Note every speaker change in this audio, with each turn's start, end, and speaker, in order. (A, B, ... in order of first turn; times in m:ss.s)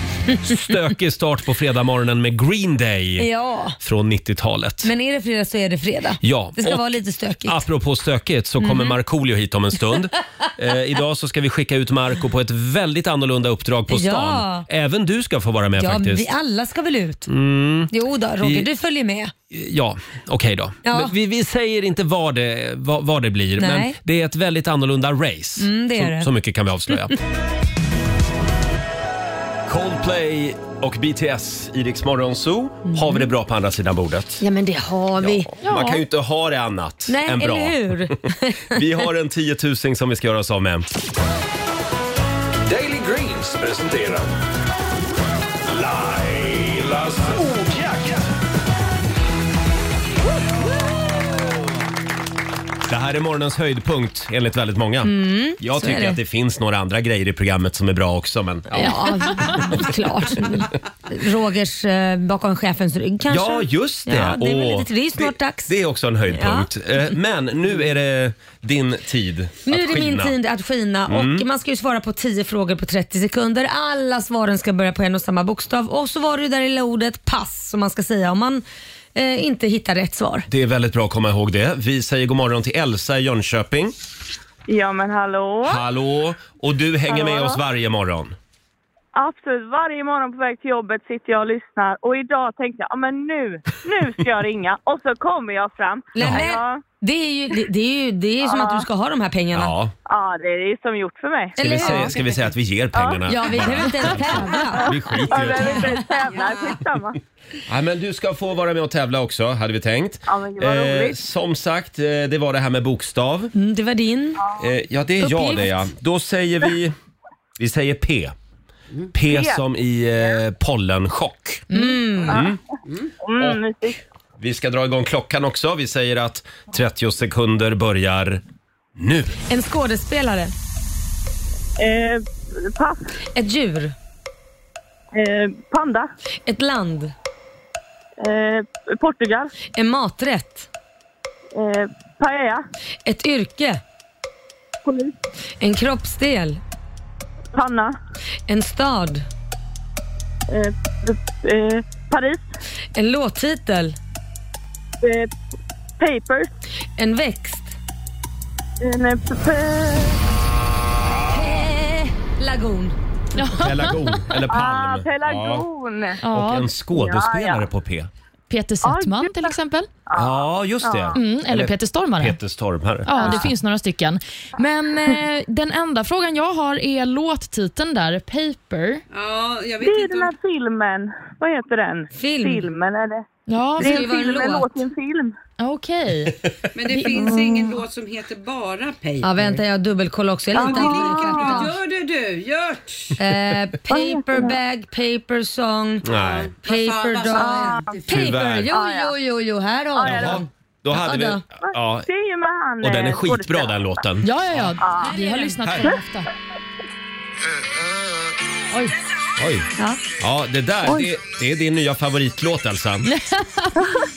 0:00.3-0:03.3 A
0:03.2-0:03.8 B
0:03.8-0:04.9 A
0:04.8-0:07.6 B
0:06.2-0:06.9 A
0:07.4-0:16.3 A
0:08.6-0:09.0 B
0:13.9-0:14.7 B
0:15.8-0:17.3 B
0:17.3-0:18.7 A
0:17.9-0:19.3 B
0:19.5-0:27.2 A
0:20.8-0:21.1 B
0:23.6-0:24.0 B
0:25.6-0:26.3 B
0:29.7-0:34.4 A
0:32.9-0:33.2 B
0:34.4-0:35.5 B
0:35.2-0:40.9 A
0:35.6-0:36.0 C
0:37.1-0:38.7 B
0:42.7-0:44.3 D
0:45.7-0:48.3 D
0:52.8-0:59.0 A
0:55.0-0:56.2 B
0:58.7-1:05.7 B
1:03.3-1:10.4 A
1:06.3-1:06.7 B
1:09.6-1:18.6 B
1:11.1-1:11.5 A
1:19.2-1:20.5 B
1:20.5-1:24.0 A
1:24.7-1:25.8 E
1:25.6-1:28.3 A
1:27.1-1:27.6 E
1:29.2-1:36.8 E
1:36.2-1:39.7 B
1:38.4-1:38.9 E
1:39.5-1:39.9 A
1:40.1-1:42.0 E
1:41.6-1:42.2 B
1:41.6-1:46.0 A
1:42.9-1:43.3 E
1:43.3-1:45.0 B
1:44.6-1:47.2 E
1:47.7-1:53.5 A
1:50.3-1:51.2 E
1:53.6-1:54.4 B
1:54.6-1:57.0 A
1:55.2-1:55.8 B
1:57.6-1:58.4 A
1:59.1-2:01.7 A
1:59.3-1:59.6 E
2:01.7-2:02.4 B
2:02.3-2:02.6 A
2:02.3-2:02.6 E
2:03.2-2:04.0 E
2:04.4-2:08.4 A
2:09.0-2:09.4 A
2:09.5-2:10.5 B
2:11.8-2:13.0 E
2:13.4-2:14.0 B
2:15.1-2:16.1 E
2:16.5-2:17.1 B
2:18.2-2:19.5 E
2:19.7-2:20.7 B
2:21.6-2:22.6 E
2:23.0-2:23.8 B
2:24.8-2:25.2 E
2:25.6-2:26.6 B
2:27.5-2:28.0 E
2:28.5-2:29.3 B
2:30.5-2:32.5 E
2:33.0-2:34.0 B
2:35.0-2:35.3 E
2:36.0-2:36.5 E
2:37.0-2:37.8 B
2:38.8-2:40.2 E
2:41.3-2:43.0 B
2:43.4-2:44.2 C
2:43.6-2:45.7 A
2:44.5-2:46.2 E
2:46.2-2:46.7 C
2:46.3-2:48.1 A
2:46.9-2:47.6 E
2:48.5-2:49.9 C
2:48.8-2:49.5 E
2:50.1-2:51.2 E
2:50.1-2:53.5 A
2:51.1-2:52.4 C
2:53.0-2:59.0 C
2:53.2-2:53.5 E
2:59.1-3:00.3 F
2:59.8-3:03.2 E
3:02.2-3:02.7 B
3:03.5-3:04.1 C
3:03.8-3:04.8 B
3:03.8-3:05.3 E
3:05.6-3:07.5 C
3:06.8-3:09.6 F
3:09.2-3:11.7 B
3:10.5-3:11.7 E
3:10.6-3:13.2 F
3:13.2-3:16.0 B
3:13.9-3:14.6 E
3:16.0-3:16.5 A
3:16.1-3:18.3 F
3:16.6-3:21.4 B
3:17.3-3:18.0 E
3:18.1-3:18.7 A
3:18.7-3:19.1 E
3:20.0-3:20.4 E
3:20.0-3:22.1 A
3:22.0-3:23.9 E
3:22.8-3:24.8 A
3:24.2-3:26.3 C
3:24.8-3:25.1 E
3:25.0-3:25.5 B
3:25.6-3:25.9 A
3:29.4-3:29.7 A
3:30.2-3:33.1 A
3:33.1-3:33.8 C